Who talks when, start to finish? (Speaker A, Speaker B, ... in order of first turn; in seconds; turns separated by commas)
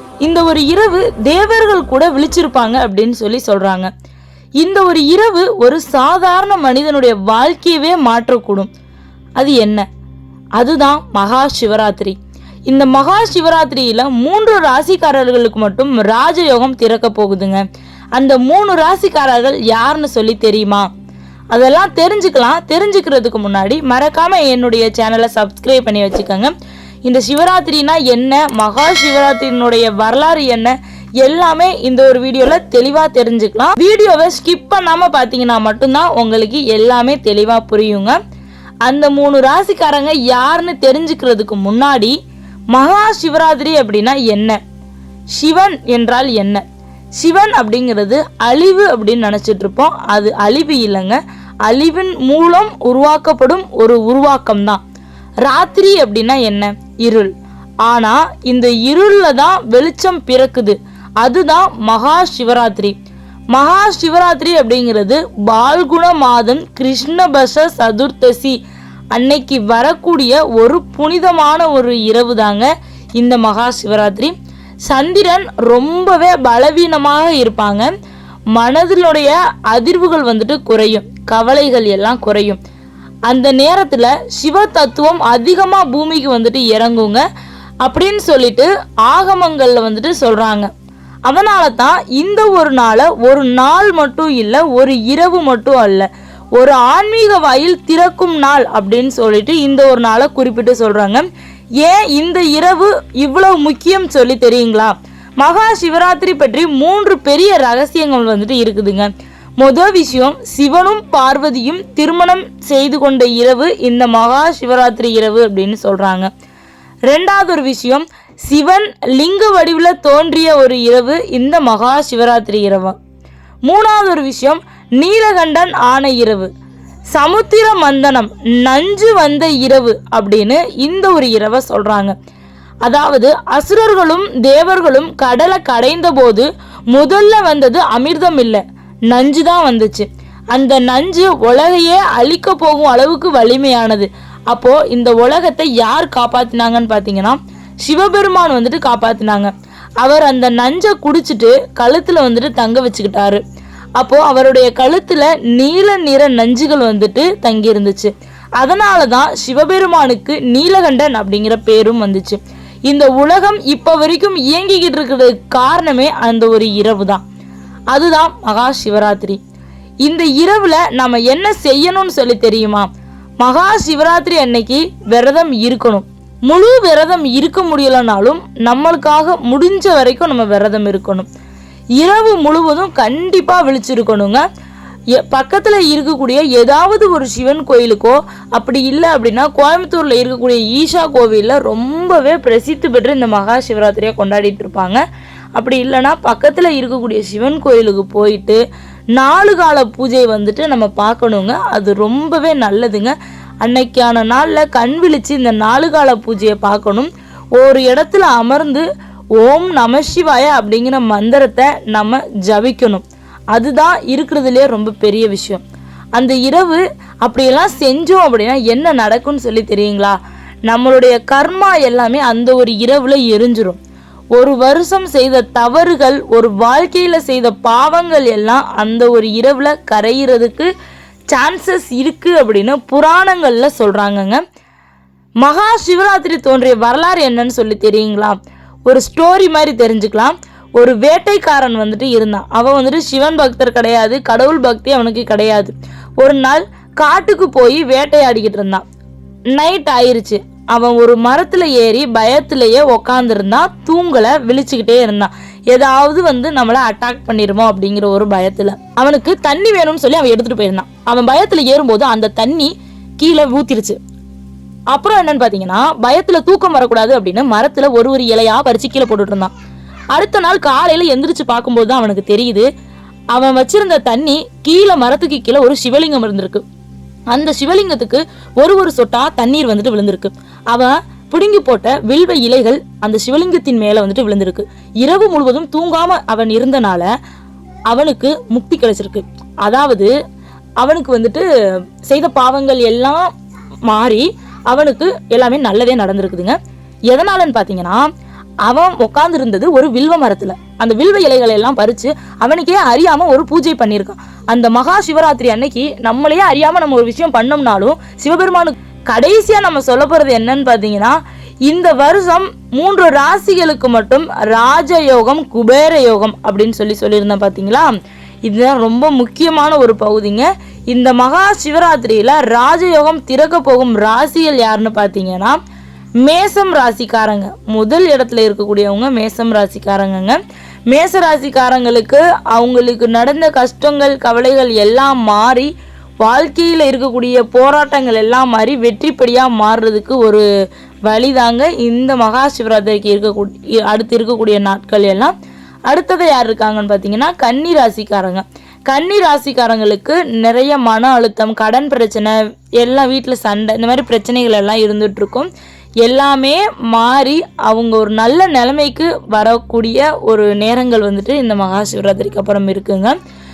Speaker A: 0.2-3.9, Speaker A: 4.6-8.7, Speaker A: 9.4-9.9, Speaker A: 10.6-12.2, Speaker A: 12.7-17.6, Speaker A: 18.1-20.9, Speaker A: 21.5-26.5, Speaker A: 27.1-38.2, Speaker A: 38.8-42.2, Speaker A: 42.7-44.6, Speaker A: 45.4-46.6, Speaker A: 47.2-54.8, Speaker A: 55.5-57.3, Speaker A: 57.8-63.0, Speaker A: 63.5-68.6, Speaker A: 69.1-74.3, Speaker A: 74.8-77.9, Speaker A: 78.5-82.6, Speaker A: 83.3-87.2, Speaker A: 87.8-90.7, Speaker A: 91.2-101.3, Speaker A: 101.8-116.3, Speaker A: 117.1-123.0, Speaker A: 123.7-126.5, Speaker A: 127.1-132.2, Speaker A: 132.8-153.4, Speaker A: 154.0-167.2, Speaker A: 167.9-169.4, Speaker A: 170.0-181.3, Speaker A: 182.0-184.4, Speaker A: 185.2-195.0, Speaker A: 195.6-198.6, Speaker A: 199.2-208.9, Speaker A: 209.4-215.6, Speaker A: 216.2-223.8, Speaker A: 224.4-230.7, Speaker A: 231.3-234.4, Speaker A: 235.4-248.8, Speaker A: 249.6-264.0, Speaker A: 264.9-269.5, Speaker A: 270.1-272.7, Speaker A: 273.3-276.6, Speaker A: 277.3-287.1, Speaker A: 287.9-290.1, Speaker A: 290.8-291.5, Speaker A: 292.0-293.3, Speaker A: 293.9-296.6, Speaker A: 297.1-298.1, Speaker A: 298.6-317.9, Speaker A: 318.4-325.6, Speaker A: 326.2-330.4, Speaker A: 330.9-335.7, Speaker A: 336.2-340.4, Speaker A: 341.1-345.3, Speaker A: 345.9-355.5, Speaker A: 356.0-363.1